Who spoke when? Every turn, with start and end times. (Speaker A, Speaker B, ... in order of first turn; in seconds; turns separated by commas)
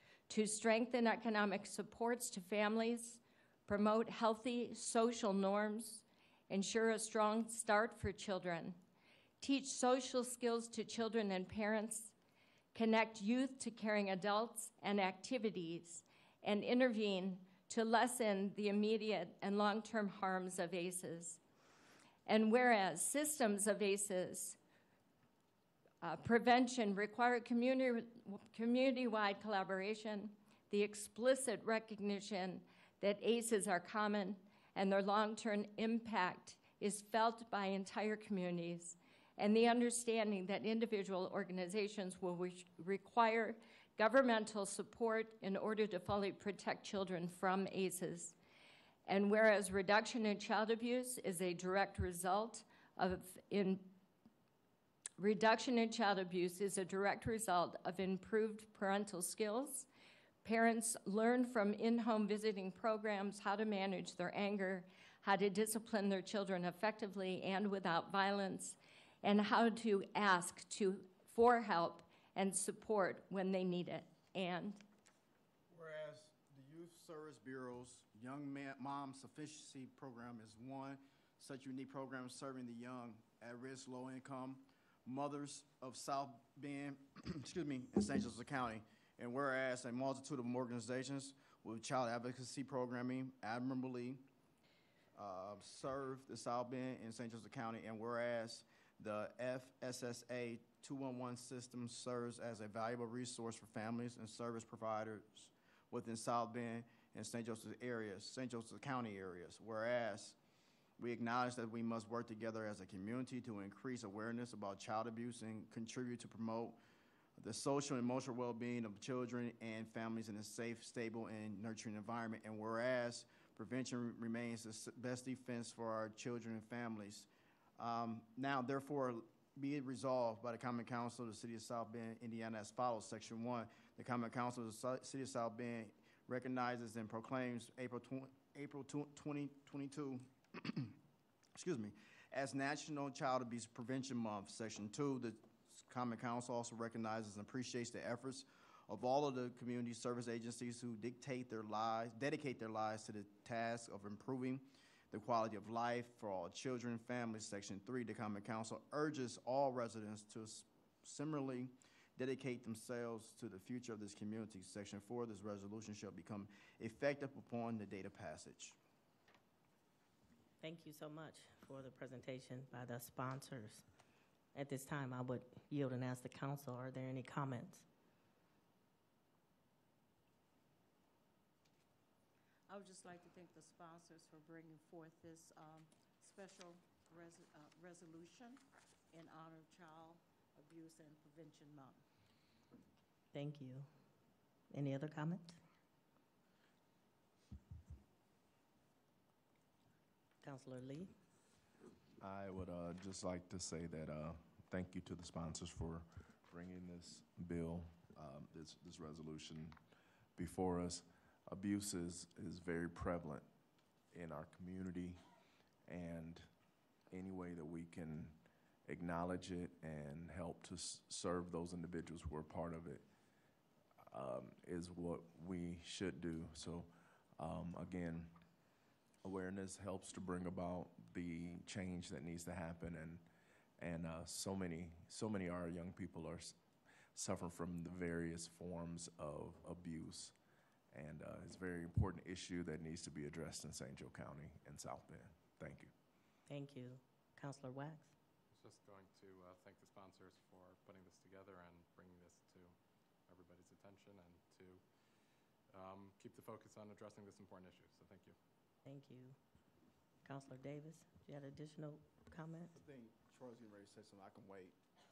Speaker A: 0.3-8.8, Speaker A: 9.4-12.1, Speaker A: 12.7-21.4, Speaker A: 22.2-24.6, Speaker A: 26.0-48.3, Speaker A: 49.0-53.9, Speaker A: 55.2-59.9, Speaker A: 60.4-74.8, Speaker B: 75.7-94.2, Speaker B: 95.1-110.3, Speaker B: 111.0-116.8, Speaker B: 117.4-140.9, Speaker B: 141.5-168.8, Speaker C: 170.6-173.8, Speaker C: 174.5-177.8, Speaker D: 182.7-188.6, Speaker D: 189.1-192.0, Speaker C: 193.3-193.9, Speaker C: 194.7-195.6, Speaker C: 200.4-201.1, Speaker E: 202.2-209.8, Speaker E: 210.3-213.4, Speaker E: 214.1-215.2, Speaker E: 215.8-216.5, Speaker E: 217.1-223.0, Speaker E: 224.1-228.3, Speaker E: 229.2-233.2, Speaker E: 233.8-236.6, Speaker E: 237.1-240.3, Speaker E: 240.9-245.9, Speaker C: 246.5-248.1, Speaker F: 248.5-258.4, Speaker C: 258.8-259.4, Speaker C: 260.2-262.7, Speaker B: 262.7-264.7